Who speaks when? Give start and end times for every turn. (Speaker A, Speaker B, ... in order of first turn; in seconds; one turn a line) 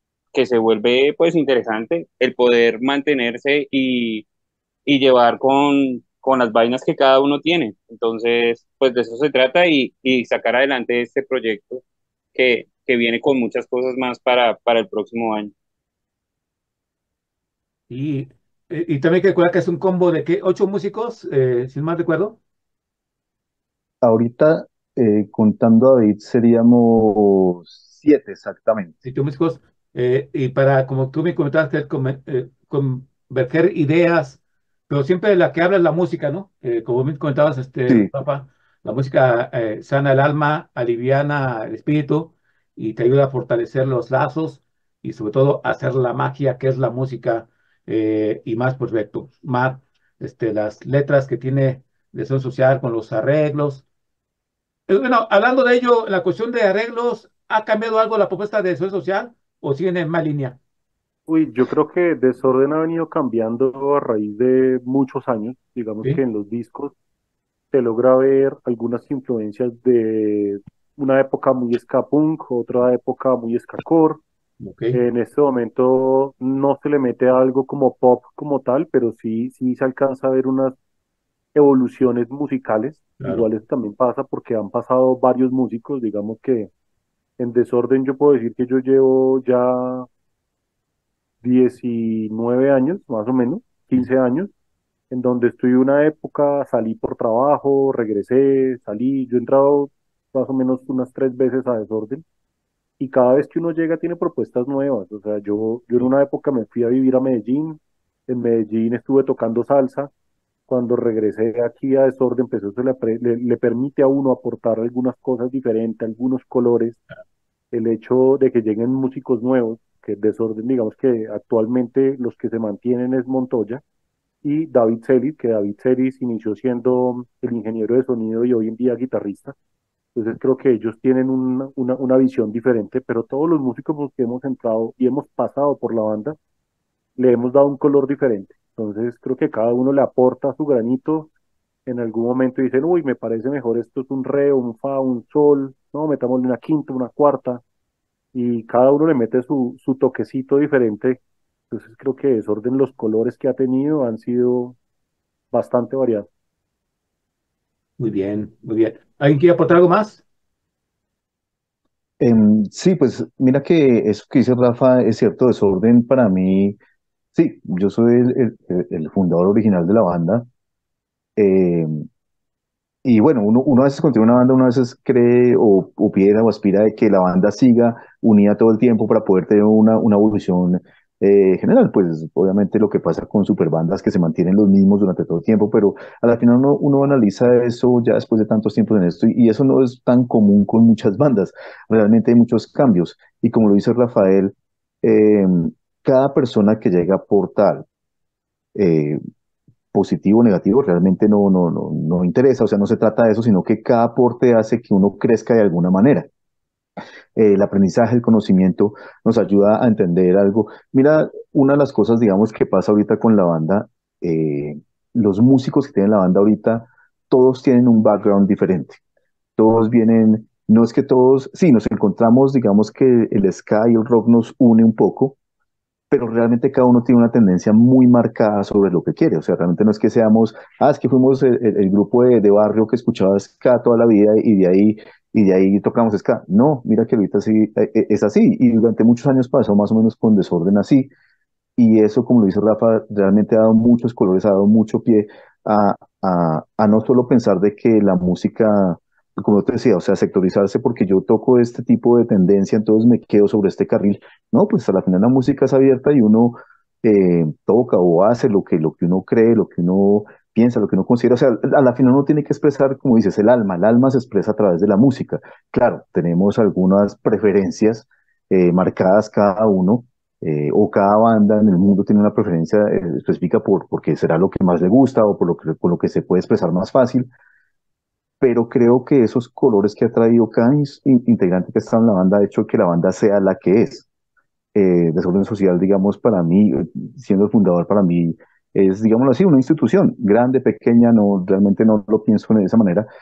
Speaker A: 0.3-4.2
Speaker A: 4.9-11.8
Speaker A: 12.3-15.5
Speaker B: 17.9-22.4
Speaker C: 24.0-28.9
Speaker B: 29.0-53.8
Speaker B: 54.9-60.6
Speaker D: 61.3-66.9
Speaker D: 67.7-74.2
Speaker B: 74.6-75.0
Speaker D: 74.9-80.8
Speaker D: 81.5-86.7
Speaker B: 83.2-83.5
Speaker D: 87.4-90.1
Speaker D: 91.4-94.5
Speaker D: 95.1-102.2
Speaker D: 103.0-110.1
Speaker D: 110.7-117.0
Speaker D: 117.7-123.8
Speaker D: 124.4-129.6
Speaker D: 130.1-136.4
Speaker D: 137.2-141.3
Speaker D: 141.9-147.6
Speaker D: 148.3-151.2
Speaker D: 151.7-154.8
Speaker D: 155.5-156.3
Speaker B: 158.0-160.2
Speaker C: 162.2-166.8
Speaker C: 167.3-170.4
Speaker C: 171.4-172.1
Speaker C: 173.0-197.8
Speaker C: 198.7-199.2
Speaker C: 199.9-206.3
Speaker C: 207.4-219.0
Speaker C: 219.6-225.4
Speaker C: 226.1-241.1
Speaker C: 241.8-277.3
Speaker C: 278.4-284.1
Speaker C: 284.7-293.1